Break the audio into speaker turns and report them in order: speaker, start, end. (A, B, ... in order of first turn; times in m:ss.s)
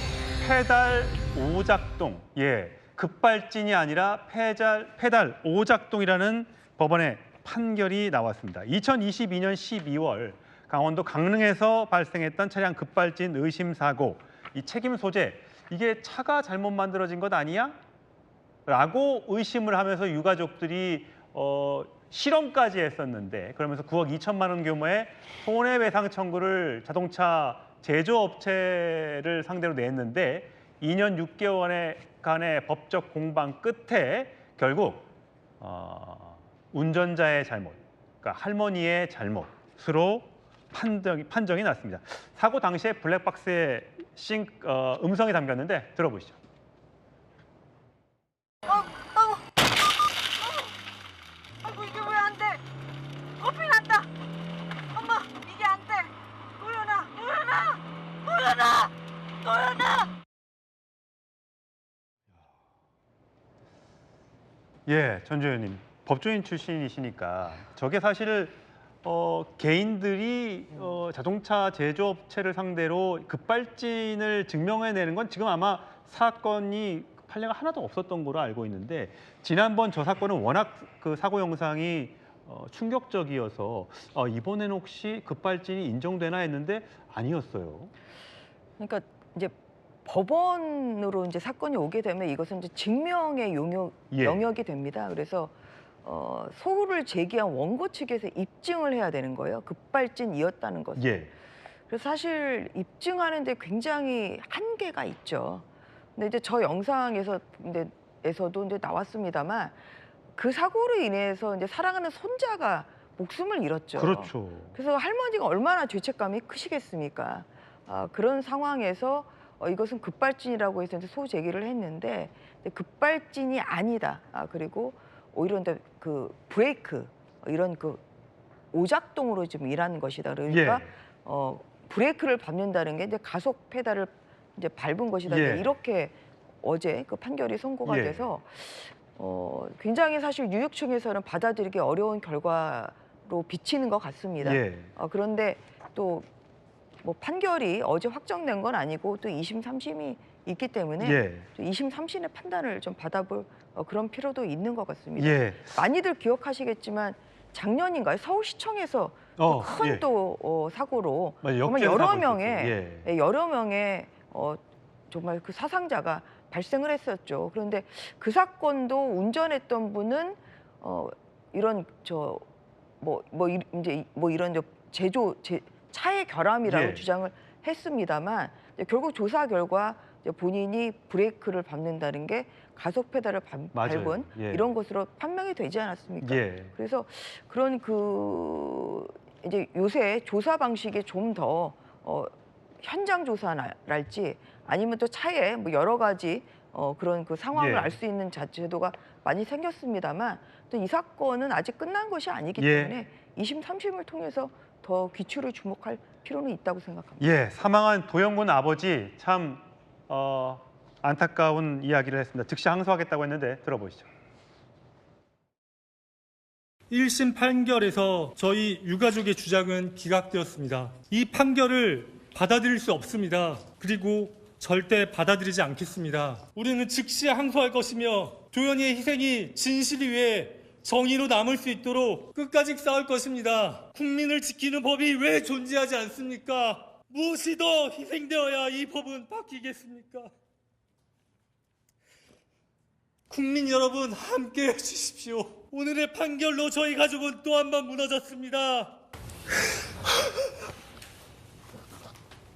0:00.4-0:17.8 A
0:18.7-0:35.1 A
0:35.6-0:46.4 A
0:48.7-0:49.5 B
0:51.6-0:52.6 B
0:53.4-0:54.1 B
0:54.9-1:00.1 B
1:04.9-1:27.9 A
1:28.8-1:41.2 C
1:34.1-1:34.4 A
1:41.0-1:41.3 A
1:41.9-1:45.6 C
1:46.2-1:49.8 C
1:50.4-2:08.0 C
1:54.0-1:54.8 A
2:08.7-2:26.3 C
2:10.5-2:10.9 A
2:15.3-2:15.7 A
2:17.8-2:18.3 A
2:24.4-2:24.9 A
2:27.0-2:52.4 C
2:31.0-2:31.5 A
2:35.2-2:35.8 A
2:39.4-2:40.0 A
2:41.4-2:43.1 A
2:53.0-3:27.2 C
2:56.7-2:57.0 A
3:03.7-3:04.7 A
3:06.2-3:06.7 A
3:17.6-3:18.0 A
3:22.6-3:23.0 A
3:27.2-3:34.1 A
3:36.9-4:00.3 D
4:03.3-4:09.0 D